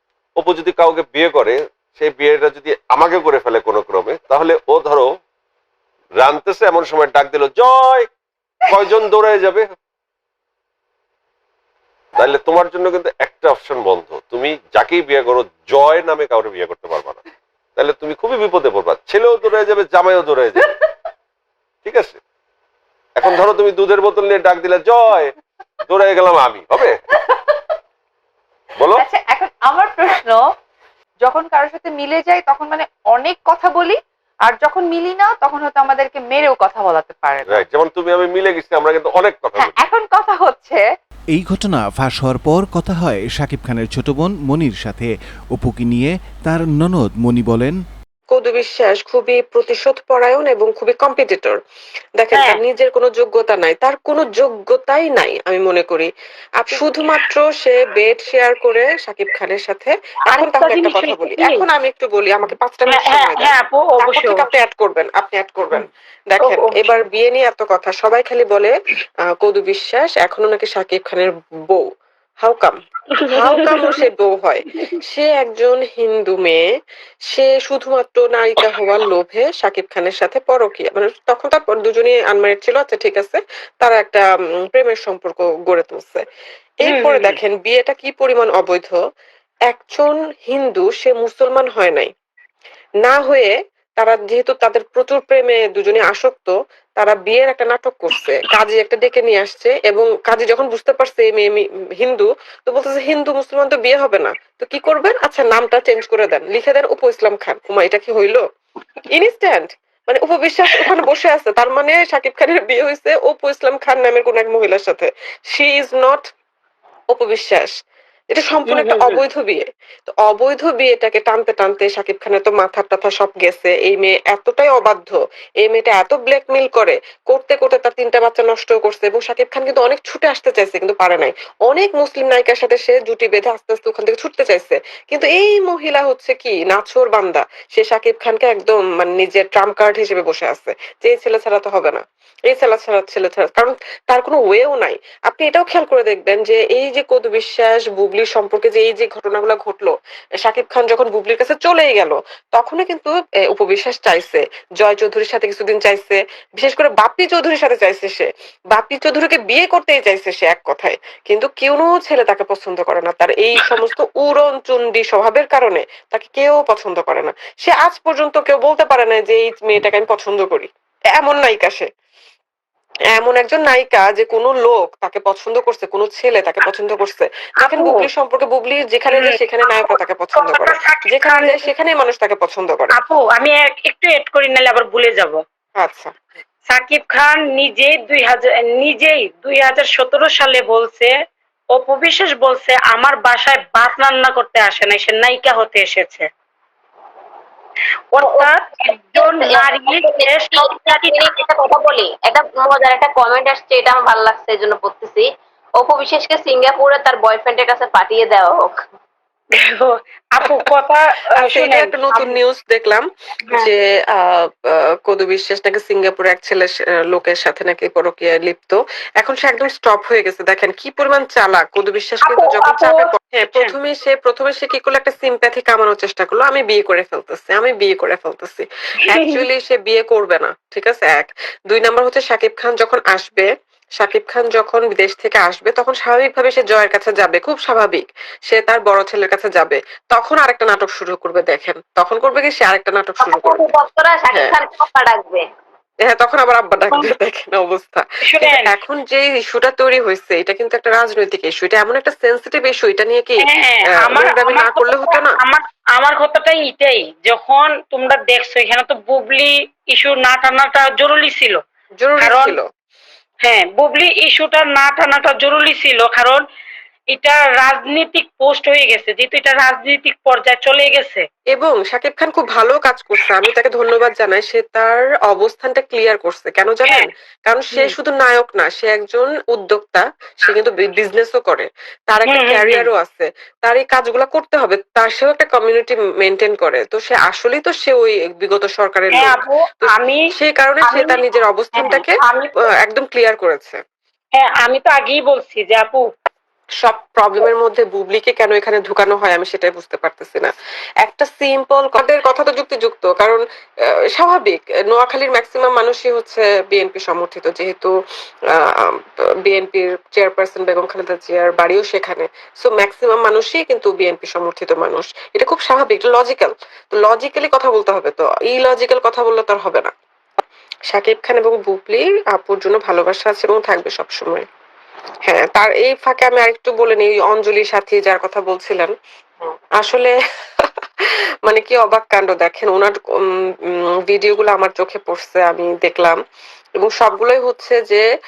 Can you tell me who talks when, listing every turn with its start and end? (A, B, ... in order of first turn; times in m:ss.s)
0:00.4-0:05.1 A
0:06.2-0:08.1 A
0:08.7-0:09.7 A
0:12.2-0:17.2 A
0:17.8-0:20.7 A
0:21.8-0:22.2 A
0:23.2-0:25.3 A
0:25.9-0:27.0 A
0:27.1-0:27.6 B
0:28.8-0:29.0 A
0:28.8-0:30.4 B
0:31.2-0:37.6 B
0:37.4-0:39.8 A
0:39.6-0:40.8 B
0:41.4-0:47.7 C
0:48.3-0:51.6 D
0:52.2-1:08.7 D
0:52.3-0:52.6 E
1:00.3-1:01.6 E
1:02.9-1:04.5 E
1:06.4-1:07.0 E
1:09.4-1:11.9 D
1:12.4-1:12.8 D
1:13.2-1:14.0 E
1:13.3-1:16.6 D
1:14.7-1:15.0 E
1:17.3-1:26.2 D
1:26.8-1:29.0 D
1:26.8-1:27.4 E
1:29.7-1:32.1 D
1:33.0-1:48.4 D
1:49.1-1:56.2 D
1:57.1-1:57.7 D
1:58.3-2:51.8 D
1:58.7-1:59.2 E
2:53.1-3:03.0 D
2:57.6-2:58.1 E
2:59.1-3:01.7 E
3:03.0-3:05.4 E
3:05.8-3:06.1 D
3:06.7-3:11.1 E
3:11.8-3:16.2 E
3:18.1-3:21.2 E
3:19.1-3:28.8 F
3:29.6-3:32.4 E
3:31.4-4:03.7 D
3:42.2-3:43.7 E
3:49.1-3:49.4 E
4:03.3-4:05.4 F
4:04.3-4:04.6 D
4:06.0-4:13.4 D
4:08.3-4:08.7 E
4:13.4-4:21.6 E
4:14.0-4:15.4 D
4:22.0-4:22.6 D
4:22.2-4:22.6 E
4:23.4-4:26.4 E
4:27.1-4:31.2 E
4:31.5-4:53.8 D
4:42.2-4:42.9 E
4:49.1-4:50.2 E
4:50.9-4:51.2 E
4:51.7-4:52.6 E
4:54.4-4:56.0 E
4:56.8-5:00.5 D
5:01.0-5:03.4 D
5:04.1-5:07.9 D
5:08.5-5:19.9 D
5:20.9-5:24.4 D
5:25.3-5:28.9 D
5:29.8-5:30.1 D
5:31.4-5:36.2 D
5:36.8-5:38.0 D